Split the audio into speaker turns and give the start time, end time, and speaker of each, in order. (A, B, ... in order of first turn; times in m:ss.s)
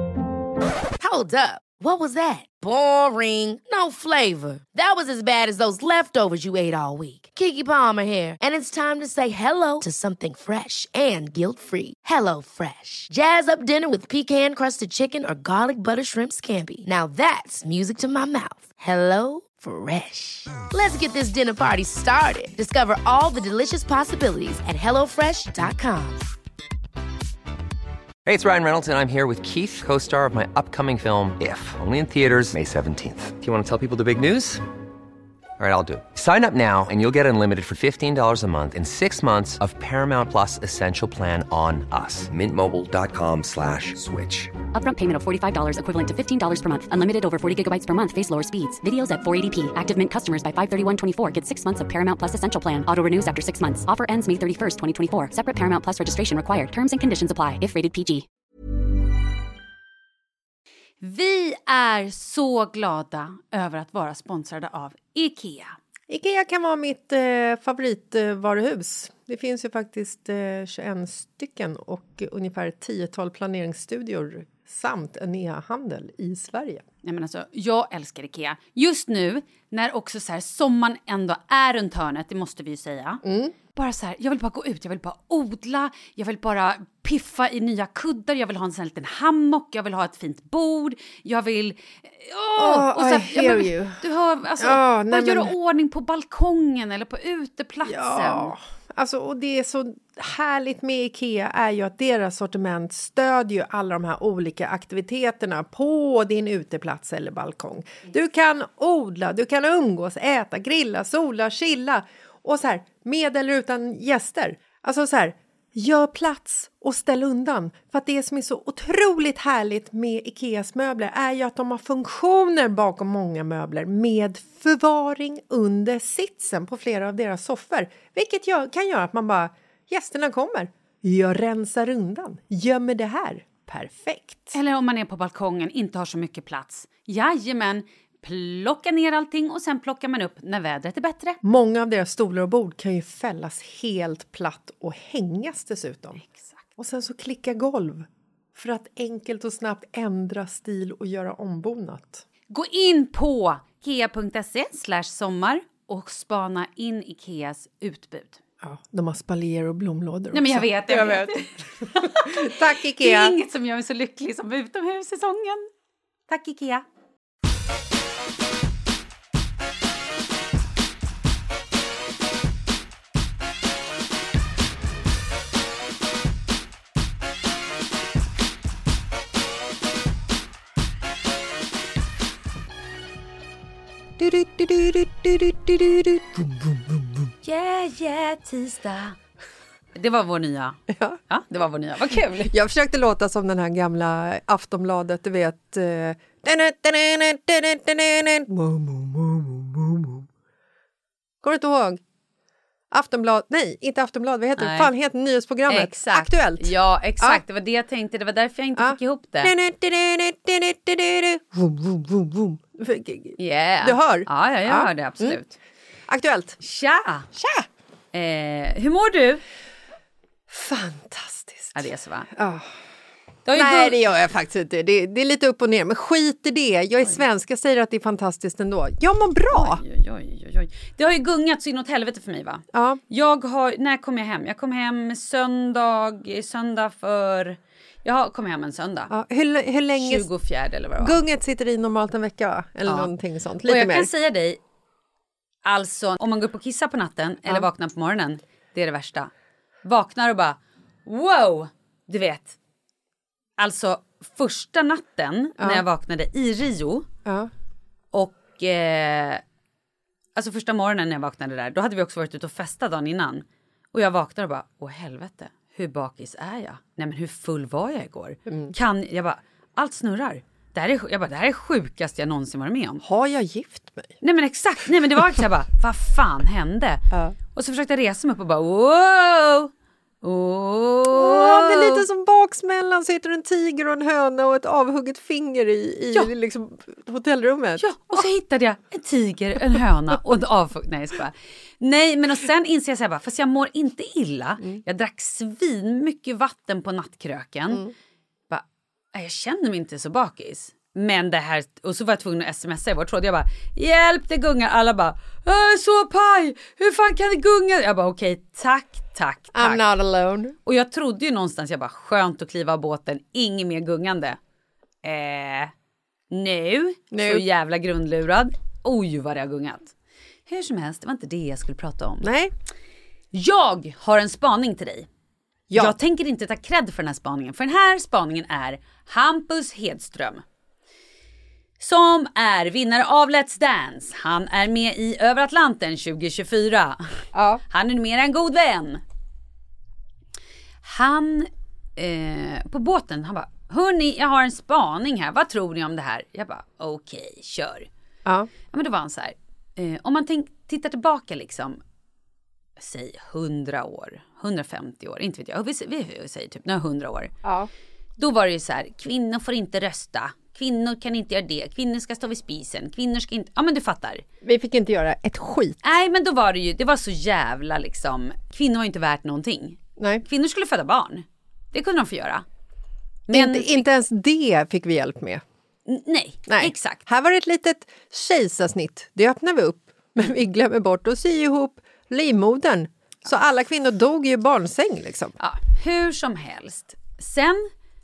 0:01.0-0:26.3 A
0:28.2-0:34.6 B
0:35.6-0:44.5 B
0:44.7-0:58.2 C
1:01.0-1:05.7 D
1:06.1-1:16.8 E
1:17.0-1:23.2 D
1:23.2-1:23.5 E
1:23.7-1:38.5 D
1:32.6-1:34.0 E
1:34.6-1:35.5 E
1:37.8-2:14.6 E
2:14.5-2:21.4 D
2:21.4-2:26.2 E
2:26.2-2:26.6 D
2:26.8-2:32.2 E
2:32.5-2:38.4 D
2:38.6-2:41.4 E
2:40.3-2:45.7 D
2:41.9-2:43.4 E
2:46.3-2:46.8 D
3:04.2-3:07.3 E
3:07.4-3:09.2 D
3:09.9-3:12.5 D
3:10.9-3:11.2 E
3:12.5-3:20.2 E
3:21.4-3:22.0 E
3:22.9-3:27.4 E
3:24.6-3:24.9 D
3:25.7-3:29.5 D
3:28.8-3:35.4 E
3:33.4-3:35.6 D
3:36.1-3:36.6 E
3:36.6-3:37.3 D
3:37.3-3:37.7 E
3:38.1-3:39.4 D
3:40.5-3:42.7 E
3:41.7-3:42.3 D
3:43.4-3:44.0 D
3:43.5-3:49.8 E
3:49.5-3:59.1 D
3:52.7-3:53.0 E
3:59.1-4:00.3 E
4:00.0-4:01.2 D
4:01.0-4:04.1 E
4:02.8-4:03.1 D
4:03.6-4:04.6 D
4:05.6-4:09.3 D
4:09.8-4:12.6 D
4:13.6-4:17.1 D
4:15.6-4:15.8 E
4:17.2-4:17.5 E
4:18.1-4:19.4 D
4:20.3-4:33.0 D
4:28.5-4:28.7 E
4:33.0-4:34.1 E
4:34.2-4:39.7 D
4:37.1-4:37.4 E
4:40.2-4:42.0 D
4:41.1-4:48.2 E
4:47.8-4:57.9 D
4:58.5-5:09.8 D
5:09.5-5:10.5 E
5:10.6-5:14.4 D
5:15.0-5:15.7 D
5:16.3-5:19.9 D
5:17.1-5:17.4 E
5:20.5-5:22.3 D
5:22.2-5:22.5 E
5:23.3-5:25.1 D
5:25.7-5:26.0 E
5:25.7-5:30.4 D
5:31.8-5:39.0 D
5:37.3-5:37.6 E
5:40.8-5:47.9 D
5:48.2-5:48.5 E
5:48.7-5:51.8 D
5:52.8-5:57.3 D
5:57.4-5:57.7 E
5:58.2-6:04.2 D
6:04.4-6:05.8 E
6:05.8-6:12.4 D
6:10.0-6:10.2 E
6:13.3-6:13.8 D
6:13.3-6:15.4 E
6:15.8-6:17.0 D
6:16.5-6:25.4 E
6:25.4-6:27.7 D